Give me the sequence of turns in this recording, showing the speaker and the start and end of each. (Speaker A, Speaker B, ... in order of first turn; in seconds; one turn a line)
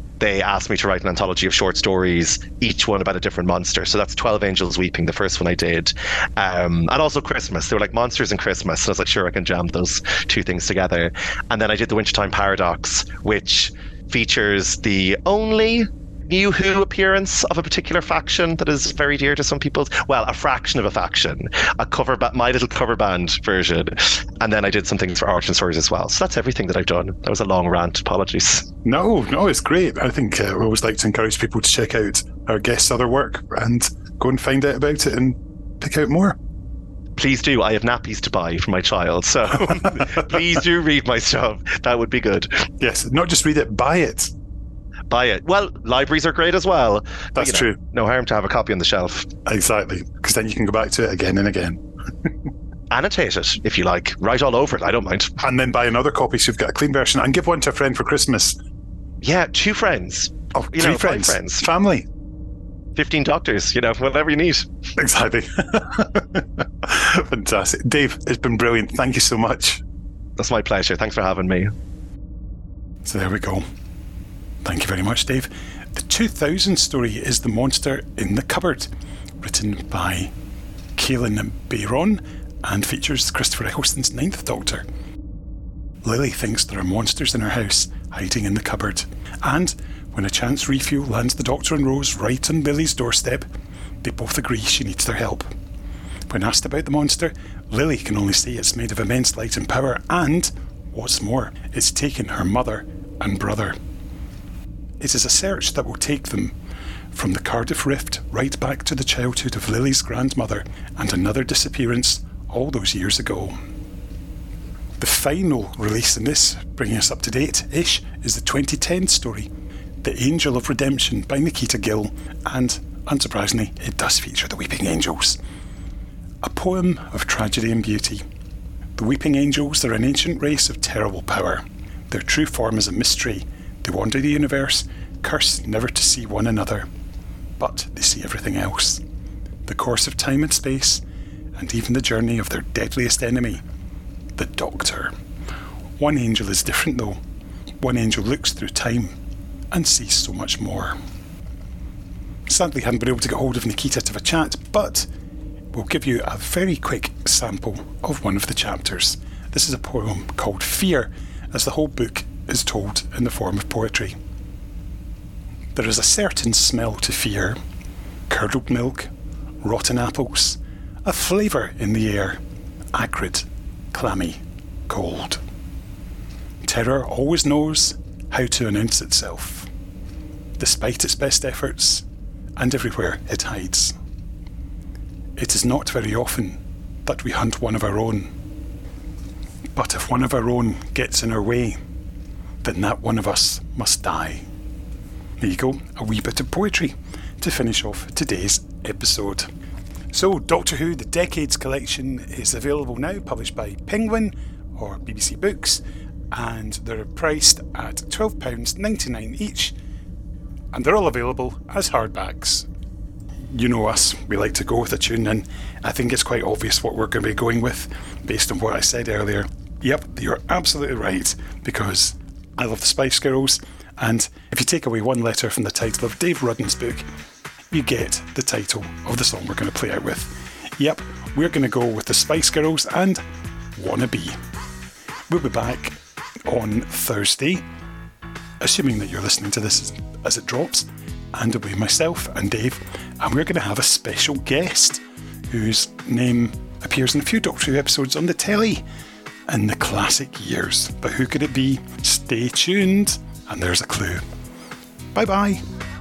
Speaker A: 0.2-28.7
Speaker B: 28.8-36.4
Speaker A: 37.2-42.7
Speaker B: 42.8-44.3
Speaker A: 45.1-49.3
Speaker B: 47.3-47.8
Speaker B: 49.5-52.3
Speaker A: 52.9-55.3
Speaker B: 55.4-58.6
Speaker A: 59.2-61.6
Speaker B: 60.5-62.0
Speaker A: 63.0-64.7
Speaker B: 65.0-69.8
Speaker A: 70.4-71.7
Speaker B: 73.0-73.6
Speaker B: 74.6-78.9
Speaker B: 79.4-80.3
Speaker B: 81.0-84.8
Speaker B: 86.0-93.5
Speaker B: 94.0-95.5
Speaker B: 96.3-103.8
Speaker B: 105.0-106.5
Speaker B: 107.1-113.5
Speaker B: 115.0-119.5
Speaker B: 120.0-125.4
Speaker B: 126.4-128.2
Speaker B: 128.9-136.9
Speaker B: 137.6-139.0
Speaker B: 139.7-141.0
Speaker B: 141.6-143.6
Speaker B: 144.3-145.1
Speaker B: 146.0-147.2
Speaker B: 147.8-149.1
Speaker B: 149.7-150.9
Speaker B: 152.5-155.1
Speaker B: 155.7-164.2
Speaker B: 165.7-167.6
Speaker B: 168.3-169.1
Speaker B: 169.6-172.4
Speaker B: 172.9-175.4
Speaker B: 176.6-179.7
Speaker B: 180.6-182.0
Speaker B: 182.6-183.9
Speaker B: 185.4-188.3
Speaker B: 189.8-191.8
Speaker B: 192.6-194.4
Speaker B: 195.4-199.5
Speaker B: 200.1-209.7
Speaker B: 210.7-212.7
Speaker B: 213.5-227.0
Speaker B: 227.7-233.2
Speaker B: 233.8-234.3
Speaker B: 235.3-237.6
Speaker B: 238.6-248.8
Speaker B: 249.5-254.2
Speaker B: 255.1-255.6